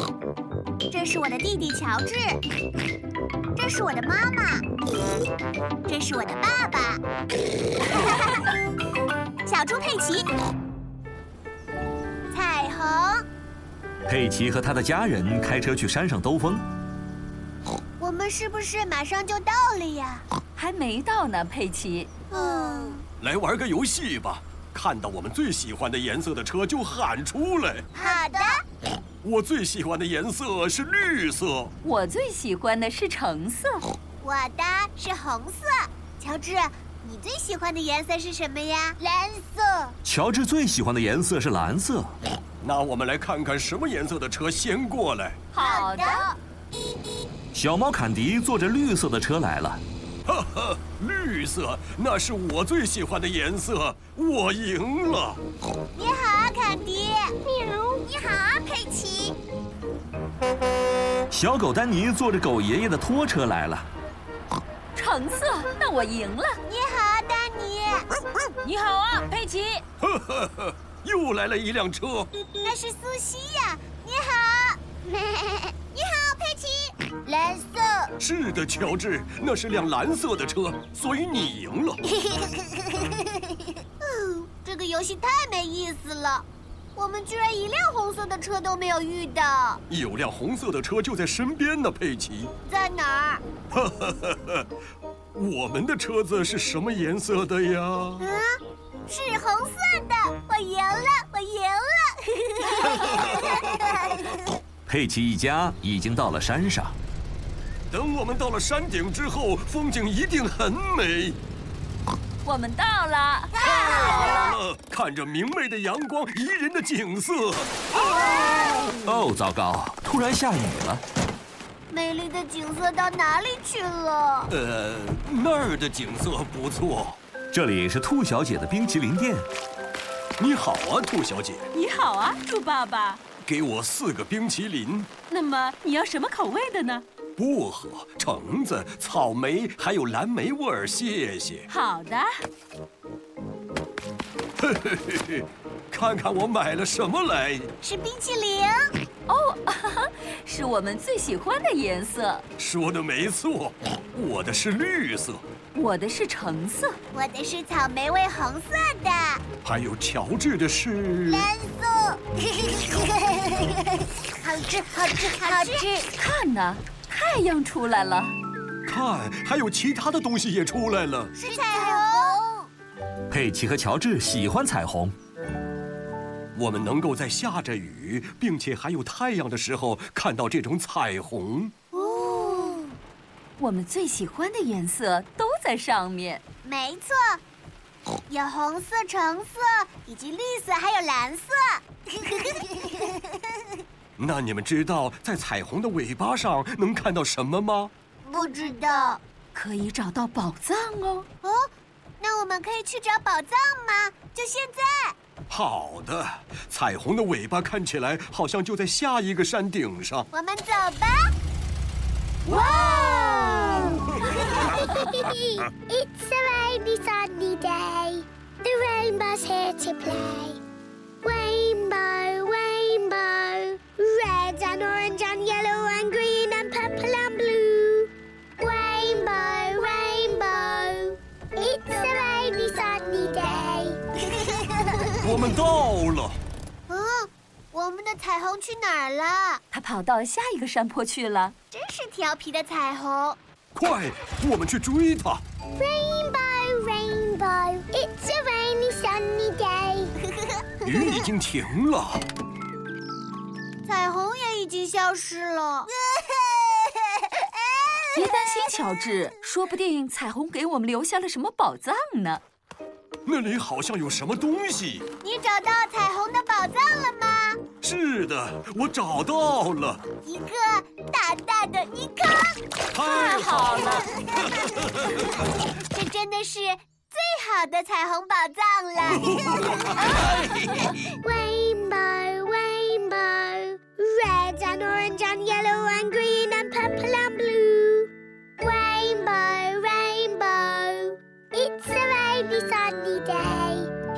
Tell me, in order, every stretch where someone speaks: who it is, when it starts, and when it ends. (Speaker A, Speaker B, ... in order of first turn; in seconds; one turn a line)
Speaker A: 0.9-2.4
Speaker A: 3.5-4.7
Speaker A: 5.9-7.0
Speaker A: 9.4-10.3
Speaker A: 12.3-13.2
Speaker B: 14.1-16.6
Speaker A: 18.0-20.2
Speaker C: 20.6-22.1
Speaker A: 22.3-23.0
Speaker D: 23.2-27.9
Speaker A: 27.9-28.6
Speaker D: 29.2-31.7
Speaker C: 31.8-33.8
Speaker A: 34.2-39.9
Speaker B: 40.0-42.2
Speaker D: 42.6-45.4
Speaker C: 45.5-46.2
Speaker A: 45.6-46.4
Speaker B: 47.5-49.8
Speaker D: 50.2-55.4
Speaker A: 55.9-57.4
Speaker E: 57.4-58.0
Speaker A: 58.0-59.4
Speaker B: 61.3-63.9
Speaker C: 64.9-66.6
Speaker A: 66.7-68.1
Speaker C: 68.6-69.8
Speaker D: 70.0-72.3
Speaker A: 72.6-78.1
Speaker D: 78.2-82.0
Speaker A: 82.2-83.2
Speaker A: 84.0-89.8
Speaker D: 89.9-92.5
Speaker A: 92.6-93.4
Speaker D: 93.7-94.7
Speaker D: 95.3-98.2
Speaker A: 98.2-104.3
Speaker B: 104.9-107.0
Speaker D: 107.9-111.4
Speaker C: 112.4-114.5
Speaker A: 113.5-114.5
Speaker D: 113.6-117.8
Speaker A: 117.9-119.0
Speaker B: 119.0-121.0
Speaker A: 121.9-124.5
Speaker D: 124.5-127.2
Speaker B: 127.5-129.5
Speaker D: 130.4-131.7
Speaker C: 131.7-133.2
Speaker D: 133.4-135.1
Speaker C: 135.3-137.0
Speaker D: 137.4-141.7
Speaker C: 141.7-142.3
Speaker D: 144.6-147.7
Speaker A: 147.8-148.9
Speaker C: 149.3-152.4
Speaker D: 152.6-155.4
Speaker C: 155.7-157.0
Speaker A: 157.1-159.4
Speaker D: 159.6-161.5
Speaker A: 161.2-166.1
Speaker C: 165.4-168.3
Speaker D: 168.8-171.3
Speaker A: 171.3-172.7
Speaker B: 173.3-175.1
Speaker D: 176.5-181.7
Speaker A: 181.9-183.0
Speaker C: 183.6-186.4
Speaker A: 186.6-187.4
Speaker A: 188.3-193.4
Speaker D: 194.2-197.9
Speaker A: 198.2-199.2
Speaker C: 199.5-201.2
Speaker A: 201.4-205.2
Speaker D: 205.5-210.3
Speaker A: 210.3-211.3
Speaker D: 212.5-213.8
Speaker A: 212.5-214.6
Speaker E: 214.5-220.6
Speaker E: 221.2-234.0
Speaker A: 234.3-235.1
Speaker D: 235.2-236.4
Speaker A: 236.9-239.6
Speaker C: 239.7-241.5
Speaker A: 241.7-243.4
Speaker D: 243.7-245.4
Speaker E: 245.8-250.1
Speaker A: 250.4-250.9
Speaker D: 250.8-252.3
Speaker A: 253.8-255.9
Speaker A: 256.5-256.8
Speaker A: 257.4-257.9
Speaker C: 258.1-262.4
Speaker D: 263.2-265.1
Speaker A: 265.2-267.6
Speaker D: 267.8-270.0
Speaker A: 270.2-272.6
Speaker D: 272.9-274.1
Speaker C: 272.9-274.1
Speaker A: 273.8-280.3
Speaker D: 274.8-275.2
Speaker D: 279.5-279.9
Speaker E: 281.2-293.9